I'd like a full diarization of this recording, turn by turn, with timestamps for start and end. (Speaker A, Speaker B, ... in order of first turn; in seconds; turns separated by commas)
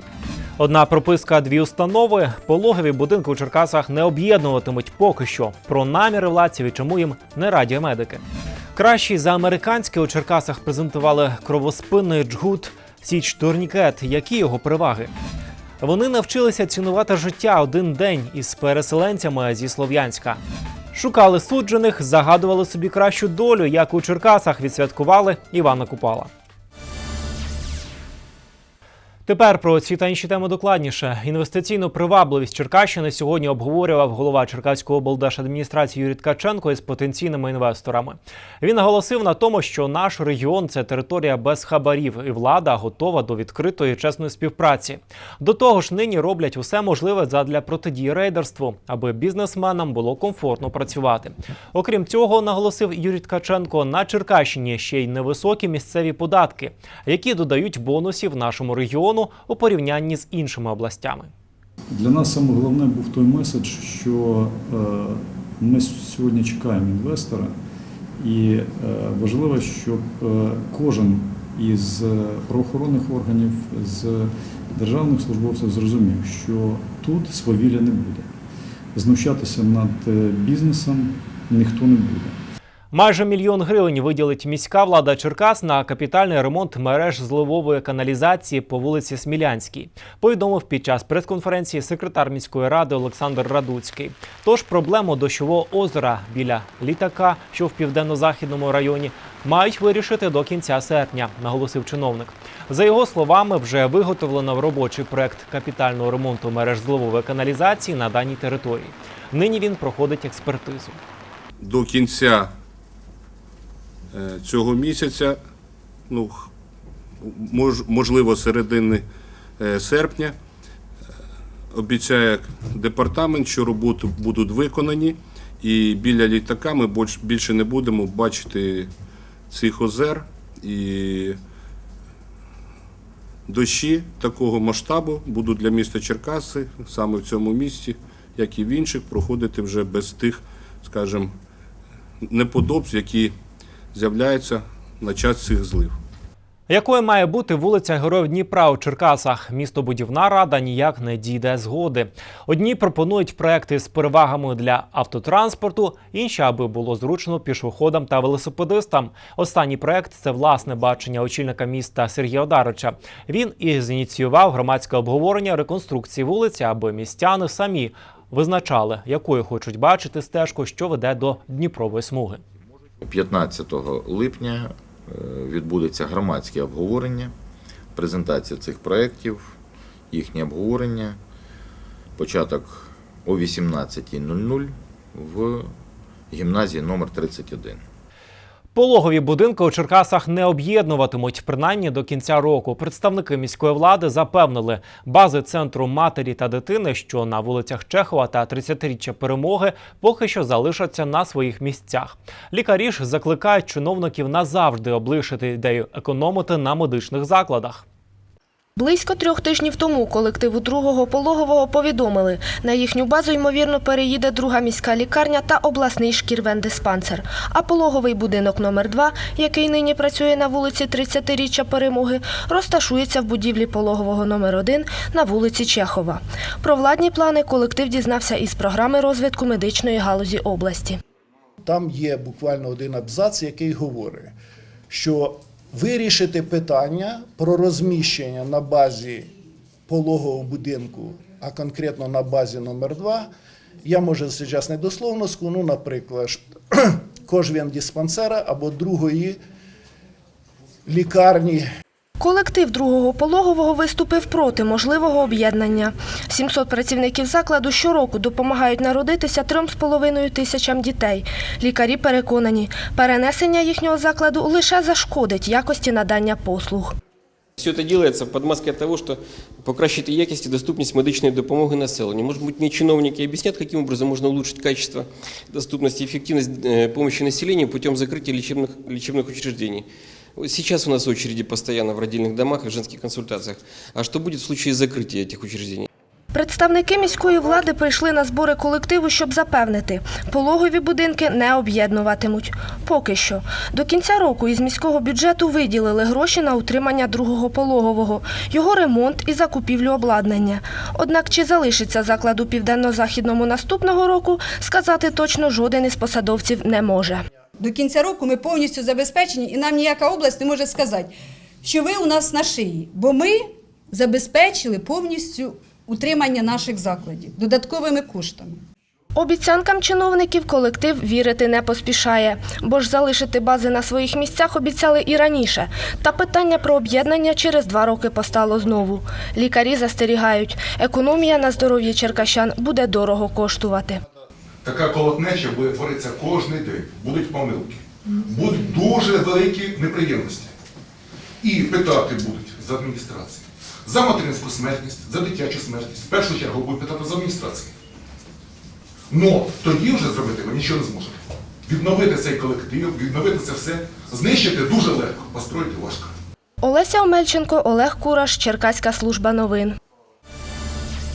Speaker A: 0.6-8.2, Speaker A: 8.8-15.1, Speaker A: 15.8-20.4, Speaker A: 20.9-26.3, Speaker A: 29.3-61.3, Speaker B: 61.9-67.5, Speaker B: 68.2-78.3, Speaker B: 79.0-82.4, Speaker A: 82.9-111.0, Speaker C: 111.6-112.5, Speaker C: 114.1-115.4, Speaker C: 116.1-116.5, Speaker C: 117.2-119.1, Speaker C: 119.6-120.4, Speaker C: 121.7-128.9, Speaker C: 129.5-131.4, Speaker C: 133.5-141.4, Speaker C: 142.2-143.3, Speaker C: 143.9-146.0, Speaker A: 146.7-172.4, Speaker D: 173.0-177.3, Speaker D: 177.9-179.6, Speaker D: 180.1-181.2, Speaker D: 182.2-185.8, Speaker D: 186.3-187.8, Speaker A: 188.8-207.8, Speaker E: 208.8-231.0, Speaker F: 231.6-234.3, Speaker F: 234.9-239.3, Speaker F: 239.9-243.3, Speaker F: 243.8-249.4, Speaker F: 250.9-251.7, Speaker E: 252.2-266.9, Speaker G: 267.6-285.9, Speaker E: 286.3-307.2, Speaker H: 307.6-311.1, Speaker H: 311.6-318.6, Speaker E: 319.1-334.0, Speaker I: 334.6-340.5, Speaker I: 341.4-347.7, Speaker I: 349.1-356.1, Speaker E: 356.6-359.8